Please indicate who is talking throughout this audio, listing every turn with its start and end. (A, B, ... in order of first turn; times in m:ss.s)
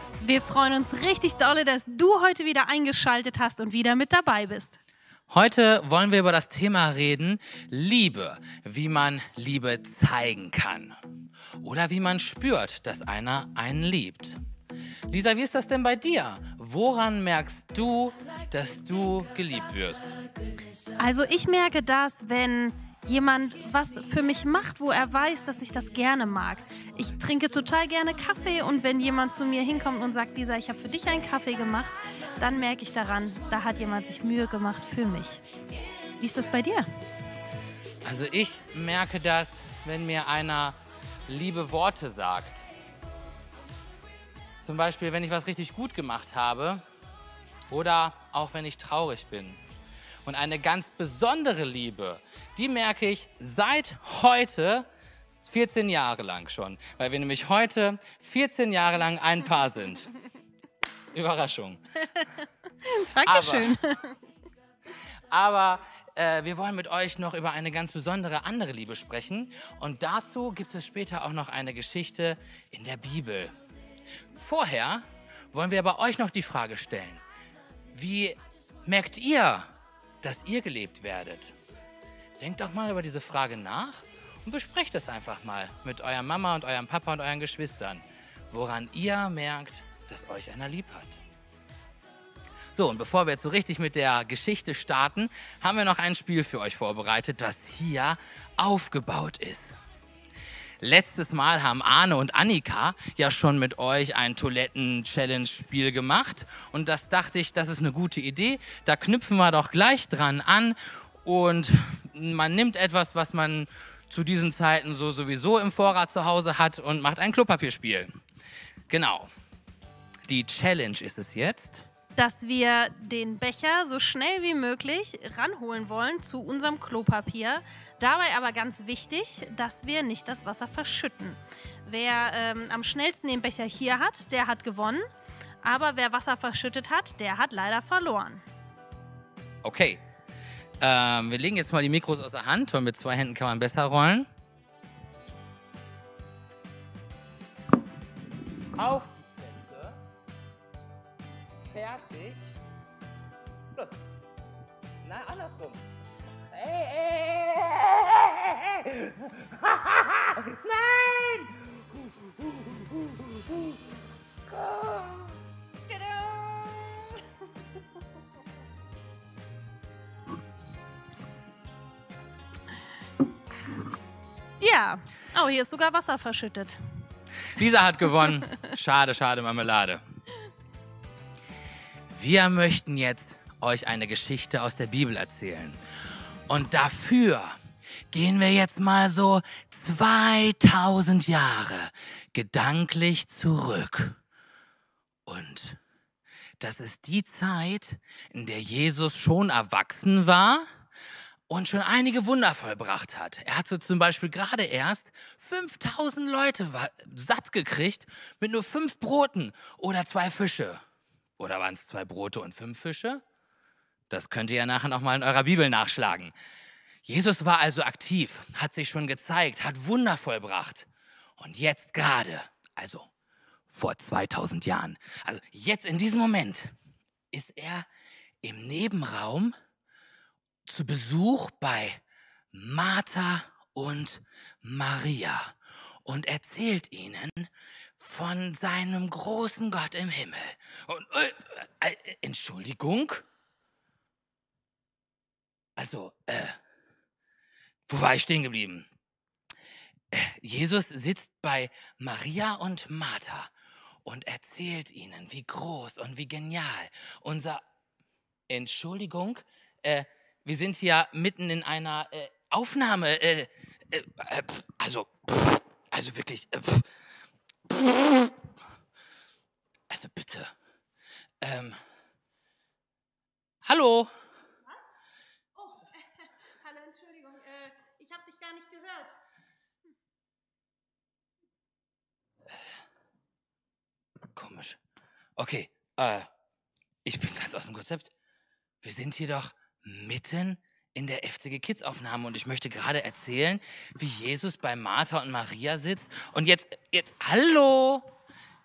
0:00.2-0:04.8 A
0:05.3-0:11.0 B
0:11.6-0:14.4 B
0:15.1-0:20.0 B
0:21.0-0:35.4 A
0:36.2-0:36.9 A
0:38.0-0:40.8 B
0:41.3-0:42.7 B
0:44.6-0:46.8 B
0:47.7-0:49.6 B
0:50.2-0:54.9 B
0:55.4-1:00.1 B
1:01.1-1:01.8 B
1:02.8-1:04.2 A
1:03.2-1:03.8 B
1:05.3-1:13.6 B
1:14.3-1:17.2 B
1:17.9-1:19.7 B
1:20.2-1:21.6 B
1:22.4-1:31.2 B
1:32.7-1:39.8 B
1:40.8-1:58.1 B
1:58.9-1:59.3 B
2:00.3-2:01.9 B
2:02.2-2:15.0 A
2:15.6-2:18.4 A
2:19.6-2:20.0 B
2:20.8-2:24.3 B
2:28.8-2:29.9 B
2:31.7-2:32.4 B
2:35.0-2:35.8 B
2:36.5-2:41.7 B
2:42.4-2:43.7 B
2:44.5-2:45.3 B
2:45.9-2:46.3 A
2:54.6-2:56.8 A
2:57.6-3:00.0 B
3:02.1-3:05.8 B
3:06.5-3:07.6 B
3:08.1-3:14.2 B
3:15.3-3:15.8 B
3:16.6-3:20.7 B
3:21.5-3:30.8 B
3:31.4-3:33.2 B
3:34.1-3:36.3 B
3:37.0-3:43.1 B
3:43.7-3:46.7 B
3:47.3-3:47.9 B
3:48.4-3:49.5 B
3:50.7-3:52.0 B
3:52.5-4:03.2 B
4:05.8-4:06.6 B
4:07.9-4:08.9 B
4:10.1-4:13.5 B
4:14.0-4:17.6 B
4:18.5-4:26.9 B
4:27.7-4:28.3 B
4:29.9-4:30.5 B
4:31.4-4:31.8 B
4:33.6-4:34.1 B
4:35.6-4:35.9 A
4:36.5-4:39.1 A
4:44.4-4:44.8 B
4:45.4-4:46.3 B
4:47.0-4:48.1 B
4:48.8-4:58.1 B